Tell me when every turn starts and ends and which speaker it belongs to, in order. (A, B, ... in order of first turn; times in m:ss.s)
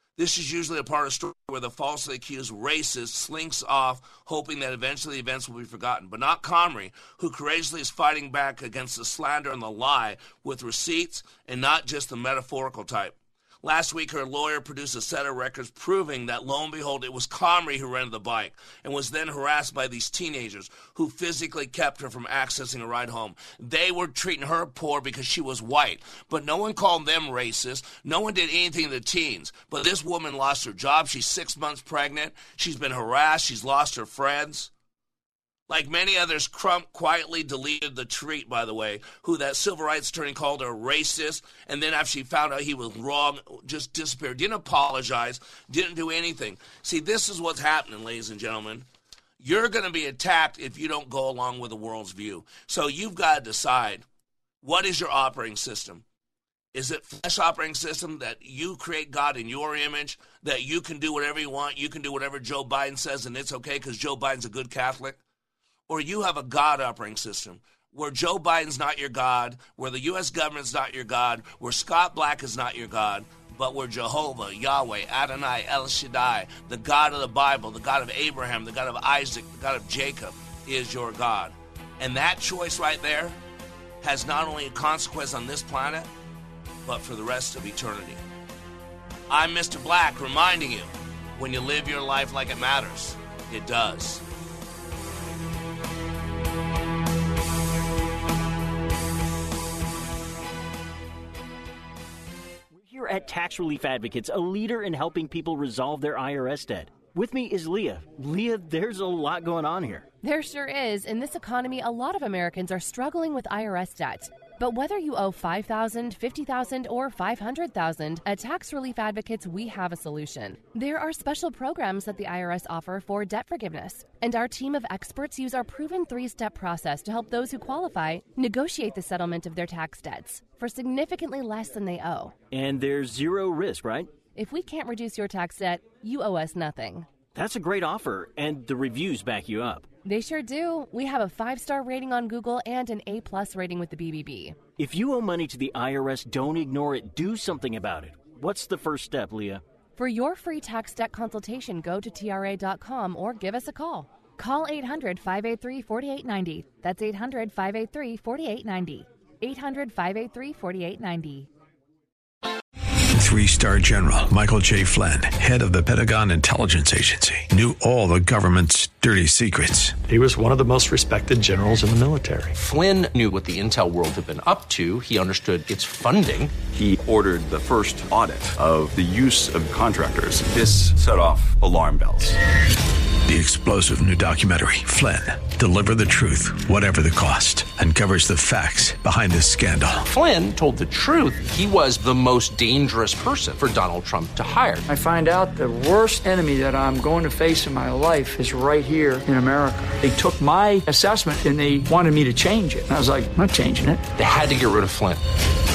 0:00.2-0:34.7 A
0:35.7-0:48.8 A
0:49.4-0:54.0 A
0:54.6-0:56.0 A
0:56.7-1:05.2 A
1:05.9-1:23.4 A
1:24.0-1:26.1 A
1:26.8-1:28.2 A
1:29.3-1:34.2 A
1:42.7-1:50.1 B
1:50.2-2:12.3 C
2:12.5-2:14.1 B
2:14.3-2:17.1 C
2:17.3-2:19.9 B
2:20.0-2:24.6 C
2:24.8-2:29.6 B
2:30.0-2:41.5 C
2:43.1-2:50.0 D
2:50.1-2:52.5 E
2:52.5-2:56.6 F
2:56.6-3:02.4 G
3:03.3-3:10.0 D
3:10.1-3:14.8 F
3:14.9-3:24.1 H
3:24.1-3:25.2 F